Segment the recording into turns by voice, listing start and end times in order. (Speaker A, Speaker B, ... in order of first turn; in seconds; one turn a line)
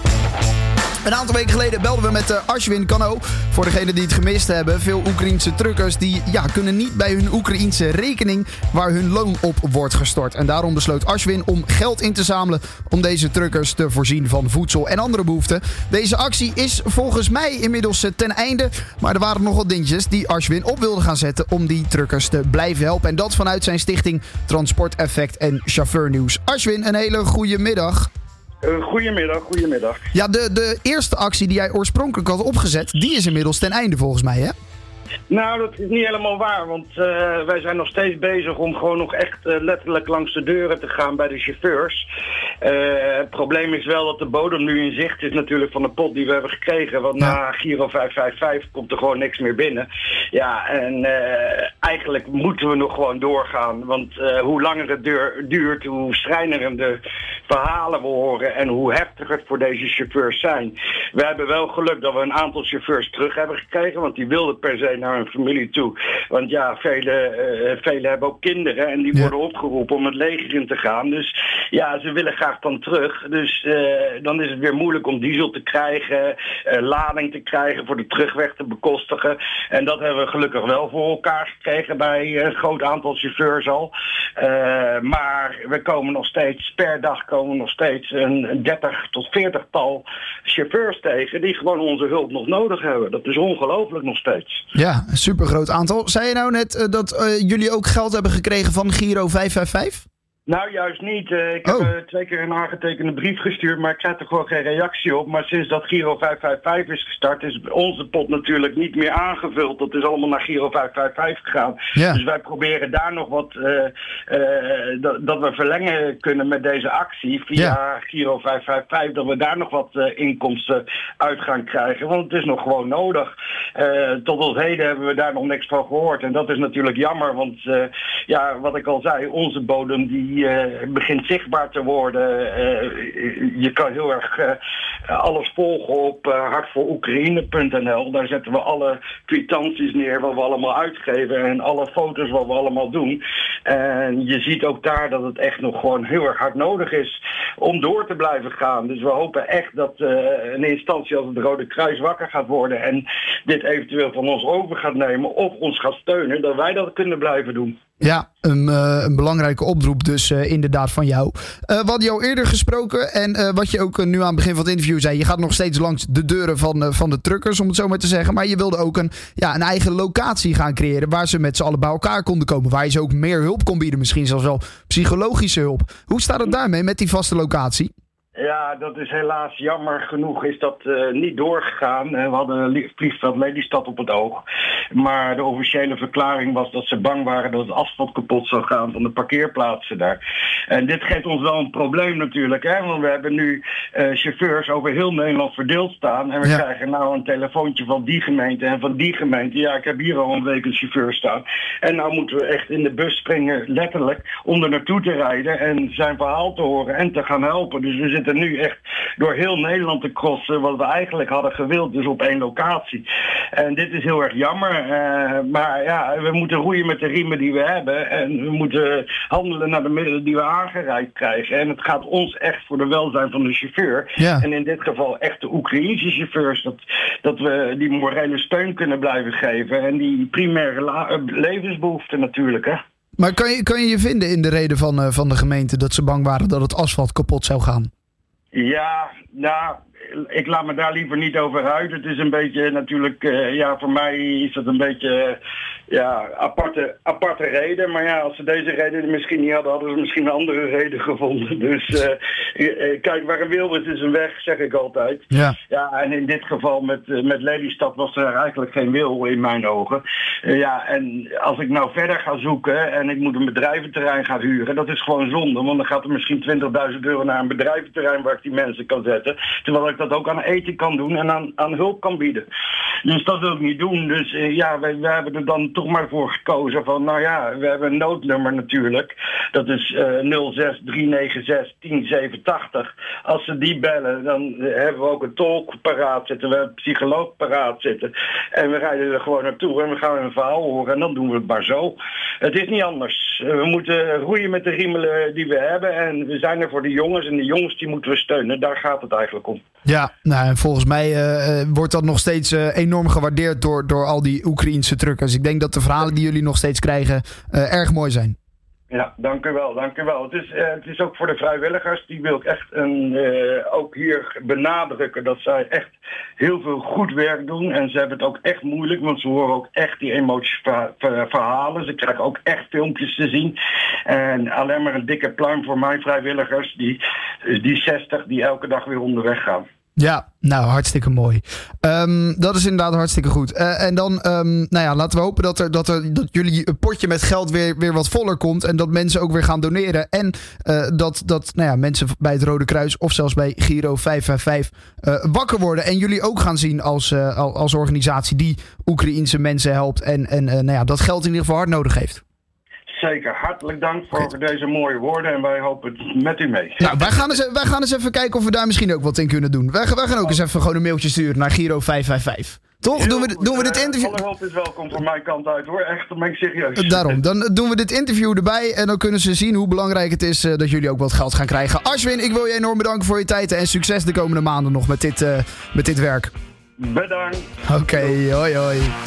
Speaker A: 1.0-28.1
Speaker B: 28.6-30.1
Speaker A: 30.1-34.5
Speaker B: 35.3-42.1
Speaker B: 42.6-94.7
Speaker A: 94.7-100.0
Speaker B: 100.5-157.8
Speaker A: 101.7-101.9
Speaker A: 158.0-177.9
Speaker B: 178.3-232.8
Speaker A: 224.2-224.4
Speaker A: 233.2-237.9
Speaker B: 238.5-272.4
Speaker A: 255.3-255.6
Speaker B: 273.0-299.6
Speaker A: 299.9-308.4
Speaker B: 308.9-329.7
Speaker A: 330.0-352.2
Speaker B: 352.9-356.9
Speaker A: 356.8-364.2
Speaker B: 362.9-367.2
Speaker A: 366.8-376.3
Speaker B: 376.8-378.2
Speaker A: 377.7-378.9